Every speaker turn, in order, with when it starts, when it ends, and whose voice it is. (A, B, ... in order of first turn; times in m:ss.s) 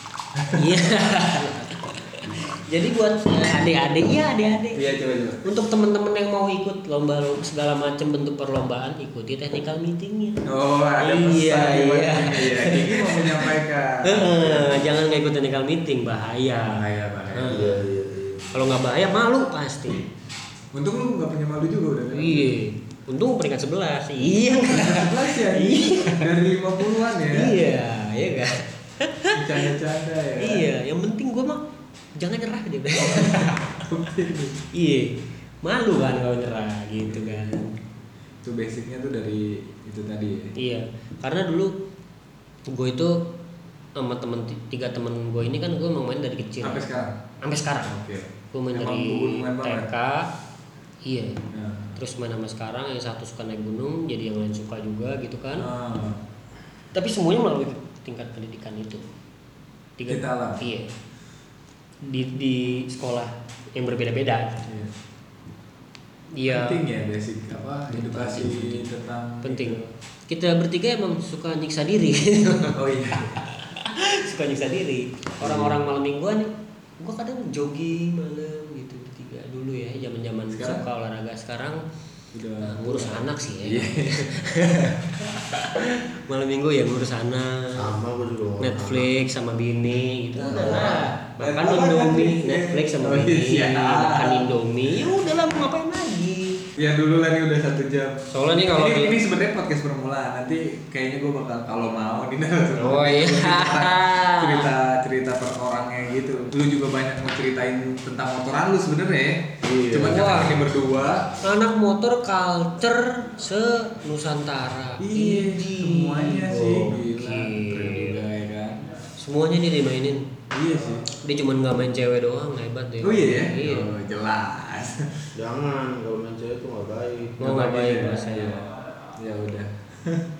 0:00.4-0:00.8 A
0:00.5-0:04.8 B
0:04.7-0:05.4 A
0:05.4-0:10.4 B
0:10.4-0:14.9 A
0:11.0-0:13.5 B
0:14.0-0:17.7 B
0:16.6-0:17.8 A
0:17.4-0:18.7 C
0:18.5-0:20.0 B
0:20.7-0:22.6 A
0:22.1-0:26.2 B
0:24.7-0:27.6 A
0:26.9-0:29.8 B
0:29.3-0:30.7 A
0:30.4-0:31.6 B
0:32.2-0:33.8 B
0:33.0-0:34.6 A
0:34.7-0:37.8 B
0:37.0-0:37.6 A
0:38.4-0:40.5 A
0:40.6-0:41.7 B
0:42.7-0:43.3 B
0:44.0-0:46.8 B
0:46.6-0:47.1 A
0:47.4-0:47.9 B
0:47.9-0:49.9 A
0:48.5-0:50.3 B
0:51.0-0:51.4 B
0:51.5-0:52.0 A
0:52.0-0:55.7 B
0:55.6-0:56.2 A
0:56.9-0:59.1 B
1:00.0-1:00.9 B
1:00.1-1:00.6 A
1:02.0-1:04.6 B
1:04.6-1:04.9 A
1:06.3-1:06.8 B
1:06.4-1:09.8 A
1:07.9-1:08.9 B
1:09.4-1:21.8 B
1:12.7-1:13.3 A
1:15.4-1:15.8 A
1:20.5-1:20.8 A
1:22.3-1:25.7 A
1:22.6-1:24.8 B
1:25.5-1:27.9 B
1:27.7-1:29.1 C
1:28.6-1:36.6 B
1:30.4-1:34.5 A
1:30.5-1:31.0 C
1:36.8-1:51.3 A
1:38.3-1:39.2 B
1:42.8-1:44.7 B
1:49.6-1:50.3 C
1:50.0-1:50.6 B
1:51.4-1:58.2 B
1:55.0-1:58.8 A
1:56.5-1:56.9 C
1:59.2-2:00.3 B
2:00.5-2:01.0 A
2:01.1-2:03.9 B
2:03.0-2:05.1 A
2:05.3-2:07.4 C
2:07.4-2:08.6 B
2:07.4-2:10.2 A